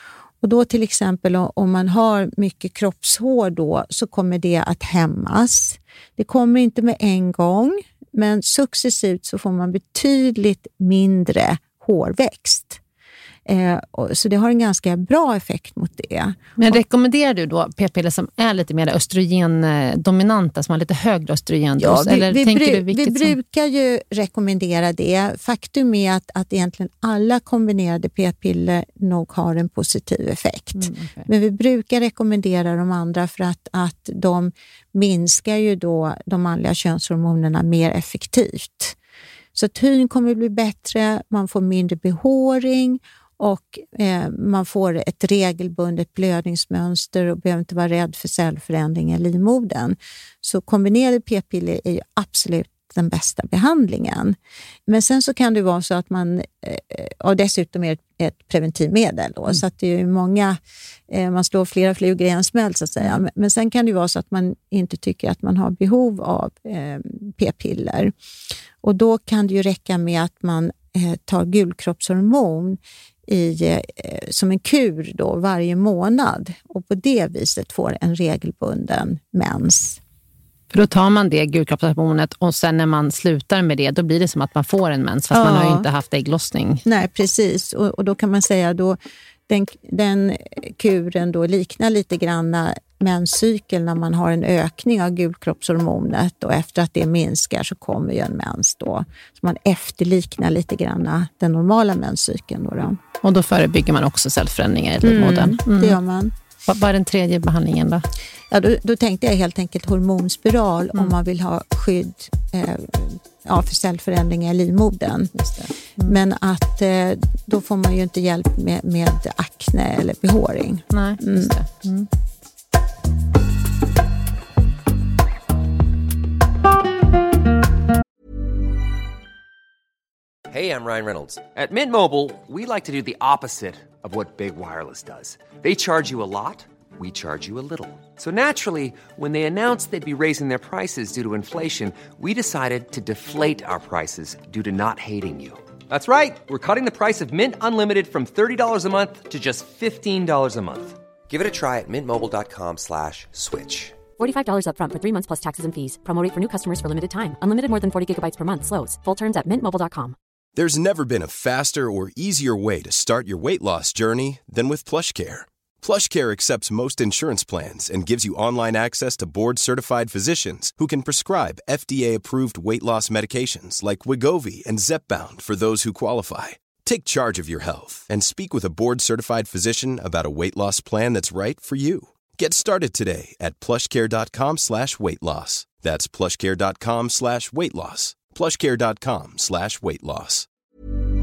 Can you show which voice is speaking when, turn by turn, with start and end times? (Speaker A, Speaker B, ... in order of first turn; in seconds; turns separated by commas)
Speaker A: 0.4-12.8, Speaker A: 13.4-16.8, Speaker B: 16.6-23.3, Speaker A: 21.8-39.0, Speaker B: 30.8-31.3, Speaker A: 39.5-60.6, Speaker A: 61.1-68.1, Speaker A: 68.8-80.0, Speaker B: 80.7-86.8, Speaker A: 85.3-85.9, Speaker A: 86.8-89.0, Speaker A: 89.5-103.0, Speaker B: 103.2-106.0, Speaker A: 105.0-106.3, Speaker B: 106.7-108.0, Speaker A: 108.5-115.3, Speaker B: 115.3-116.2, Speaker A: 116.0-121.5, Speaker B: 120.9-122.1, Speaker C: 130.5-154.0, Speaker D: 154.1-160.2, Speaker E: 160.6-190.5